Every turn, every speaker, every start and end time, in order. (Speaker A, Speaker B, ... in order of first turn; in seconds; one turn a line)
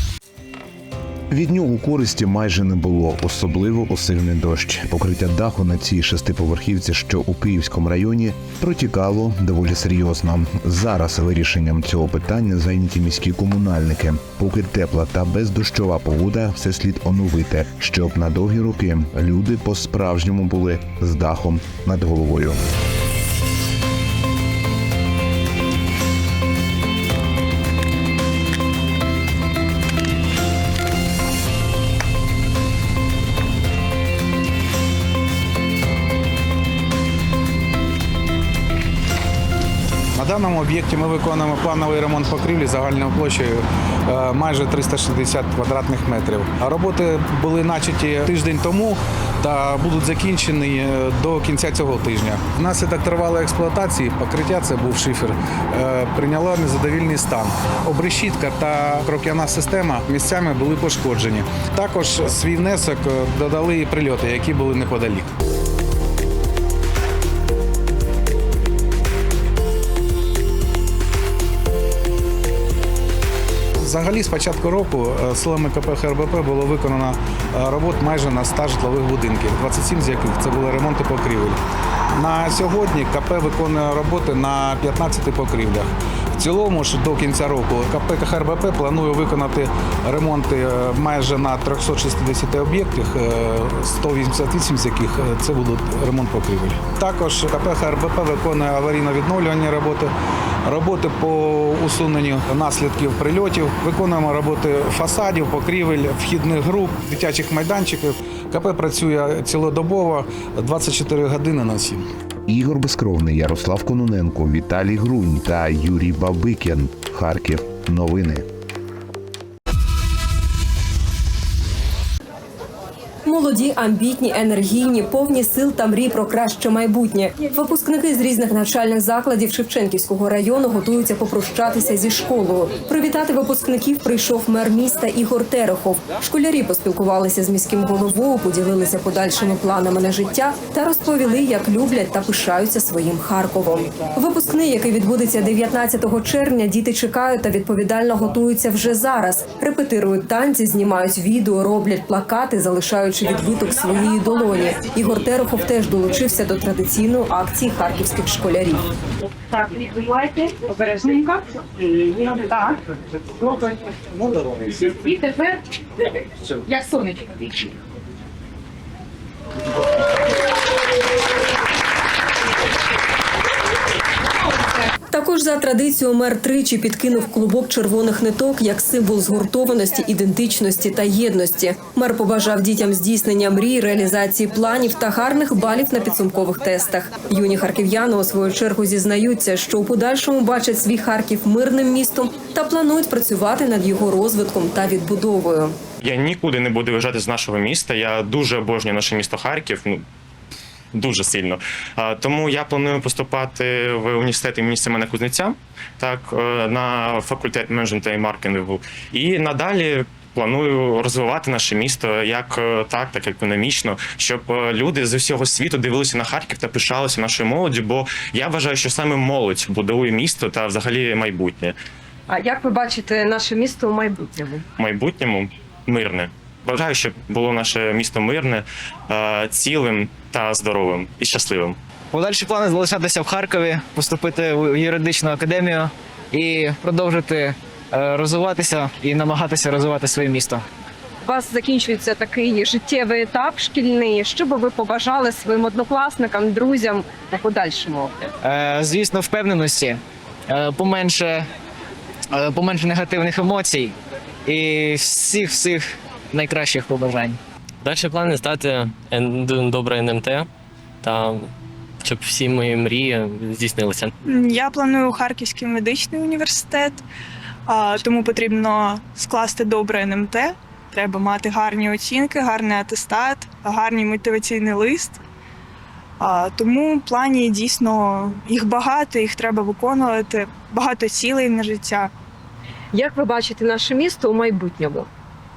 Speaker A: 1.3-22.6
Speaker B: 40.1-65.3
Speaker B: 73.8-81.6
Speaker B: 82.1-100.1
Speaker B: 100.6-112.0
Speaker A: 112.5-118.5
Speaker C: 123.2-158.8
Speaker D: 159.6-161.4
Speaker D: 165.1-165.6
Speaker C: 175.1-195.8
Speaker E: 196.0-200.0
Speaker E: 200.9-221.7
Speaker D: 222.3-224.6
Speaker E: 224.8-231.8
Speaker F: 232.1-240.6
Speaker D: 241.2-248.2
Speaker F: 248.4-251.4
Speaker F: 252.3-253.9
Speaker F: 254.4-257.4
Speaker G: 257.8-260.5
Speaker G: 261.0-261.5
Speaker G: 262.0-264.1
Speaker H: 264.2-267.1
Speaker H: 267.7-275.2
Speaker H: 276.2-282.1
Speaker D: 282.9-285.1